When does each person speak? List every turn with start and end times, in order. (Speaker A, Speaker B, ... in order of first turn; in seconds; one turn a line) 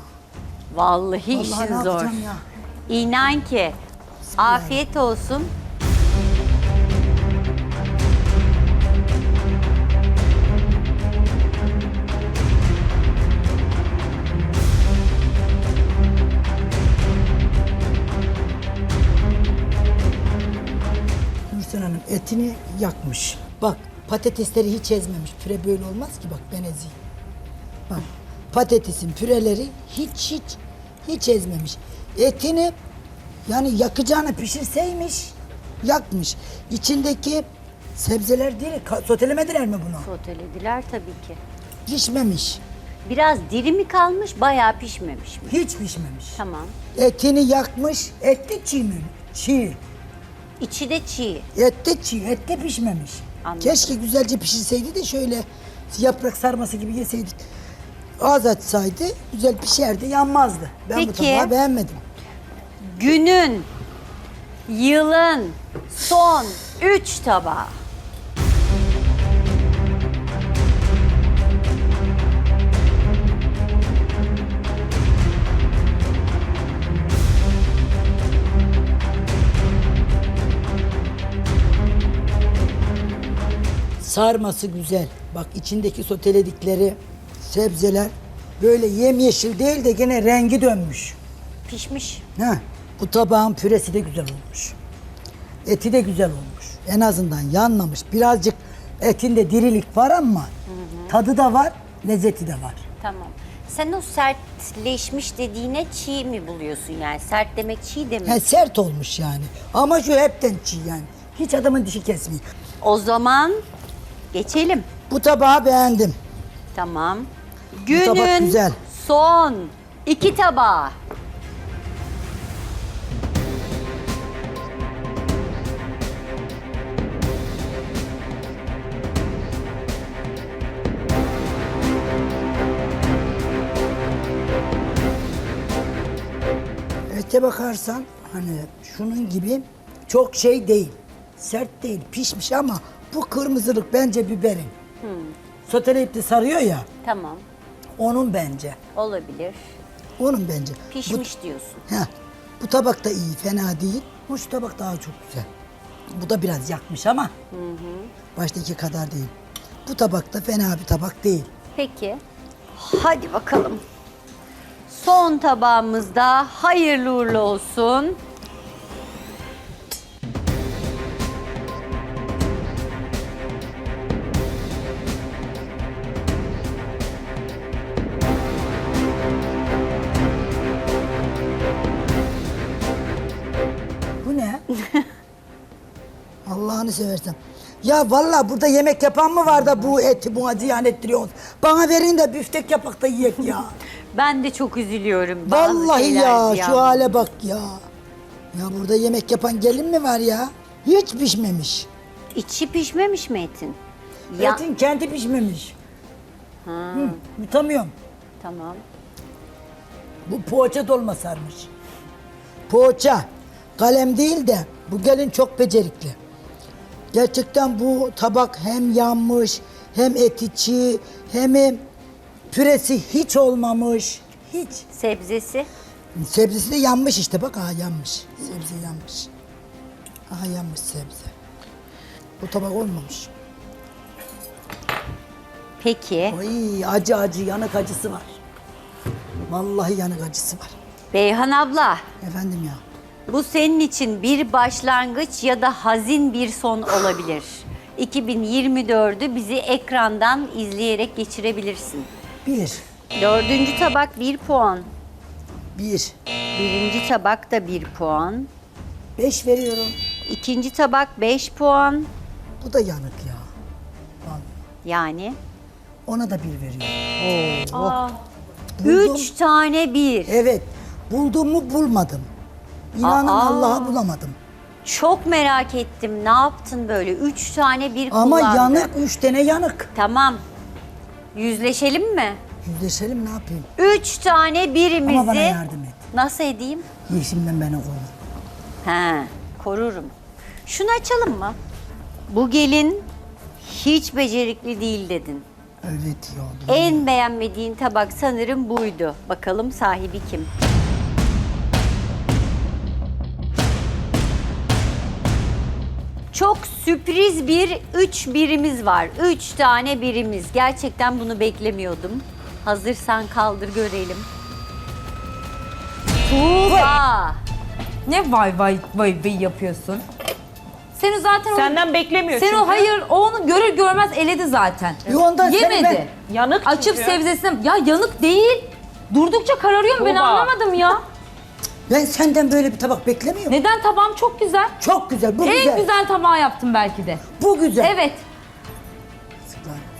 Speaker A: 0.7-2.3
Speaker B: 1.3-2.4
Speaker A: 2.9-3.8
Speaker B: 4.2-4.8
Speaker A: 4.4-5.5
Speaker B: 21.5-26.9
Speaker B: 27.9-32.7
Speaker B: 33.5-40.1
Speaker A: 40.0-41.4
Speaker B: 41.9-42.6
Speaker A: 43.0-45.5
Speaker B: 45.5-46.4
Speaker A: 46.4-46.7
Speaker B: 46.9-49.8
Speaker A: 50.6-51.5
Speaker B: 51.5-57.4
Speaker A: 53.4-53.9
Speaker B: 58.2-62.0
Speaker A: 60.9-61.5
Speaker A: 62.9-63.7
Speaker A: 64.7-67.7
Speaker B: 84.0-91.2
Speaker A: 91.7-92.2
Speaker B: 92.3-94.8
Speaker B: 95.7-100.5
Speaker A: 100.7-101.1
Speaker B: 101.1-102.8
Speaker A: 103.0-108.4
Speaker B: 108.2-112.4
Speaker A: 112.8-113.6
Speaker A: 114.3-114.9
Speaker B: 115.1-116.2
Speaker A: 116.7-120.9
Speaker B: 117.9-118.8
Speaker B: 137.1-144.7
Speaker A: 145.0-145.3
Speaker B: 145.7-146.9
Speaker A: 147.0-147.4
Speaker B: 148.0-148.8
Speaker A: 148.9-149.6
Speaker B: 150.2-151.2
Speaker A: 150.9-151.8
Speaker B: 151.9-155.5
Speaker B: 156.1-157.3
Speaker A: 157.5-158.1
Speaker B: 158.3-159.3
Speaker B: 159.8-161.5
Speaker A: 161.7-162.2
Speaker A: 162.7-163.8
Speaker A: 164.9-168.2
Speaker B: 184.2-184.6
Speaker B: 186.4-193.7
Speaker A: 194.1-197.1
Speaker B: 195.4-197.8
Speaker B: 198.5-201.9
Speaker A: 202.3-203.8
Speaker A: 204.3-204.6
Speaker B: 204.4-205.7
Speaker A: 206.6-207.2
Speaker B: 206.9-207.9
Speaker A: 208.4-208.8
Speaker B: 210.2-211.7
Speaker B: 212.7-213.2
Speaker B: 213.8-216.2
Speaker B: 217.1-221.8
Speaker B: 222.5-224.8
Speaker A: 224.9-225.7
Speaker B: 226.1-229.3
Speaker B: 230.3-231.3
Speaker B: 232.4-233.3
Speaker A: 235.8-236.4
Speaker B: 236.3-238.3
Speaker B: 239.5-240.7
Speaker A: 241.1-242.0
Speaker B: 242.2-242.8
Speaker A: 243.3-252.1
Speaker B: 252.4-252.8
Speaker A: 253.2-254.9
Speaker B: 255.8-256.1
Speaker A: 256.5-258.5
Speaker B: 259.2-259.9
Speaker A: 260.2-262.1
Speaker B: 262.6-263.5
Speaker B: 264.2-264.5
Speaker A: 264.8-265.4
Speaker B: 266.1-268.0
Speaker A: 267.7-268.2
Speaker B: 268.8-269.3
Speaker A: 268.8-270.3
Speaker B: 270.2-272.3
Speaker B: 272.9-274.4
Speaker A: 273.0-274.0
Speaker A: 274.8-278.9
Speaker B: 278.1-279.9
Speaker A: 279.9-280.4
Speaker A: 281.3-282.4
Speaker B: 282.6-283.7
Speaker A: 283.8-285.6
Speaker B: 285.0-286.0
Speaker A: 286.1-286.9
Speaker B: 287.1-288.1
Speaker A: 288.8-290.1
Speaker A: 290.6-291.6
Speaker A: 292.3-293.1
Speaker A: 293.6-295.4
Speaker B: 295.8-297.0
Speaker A: 296.7-300.5
Speaker A: 306.3-314.3
Speaker A: 316.2-317.4
Speaker C: 318.1-320.0
Speaker C: 320.9-321.8
Speaker D: 321.5-322.9
Speaker C: 322.3-326.1
Speaker B: 325.1-326.0
Speaker D: 326.3-327.2
Speaker C: 326.6-331.0
Speaker D: 330.0-330.5
Speaker B: 331.9-333.6
Speaker C: 333.5-334.7
Speaker B: 334.8-335.9
Speaker C: 335.4-337.2
Speaker B: 337.4-337.9
Speaker C: 337.8-338.2
Speaker B: 339.5-339.9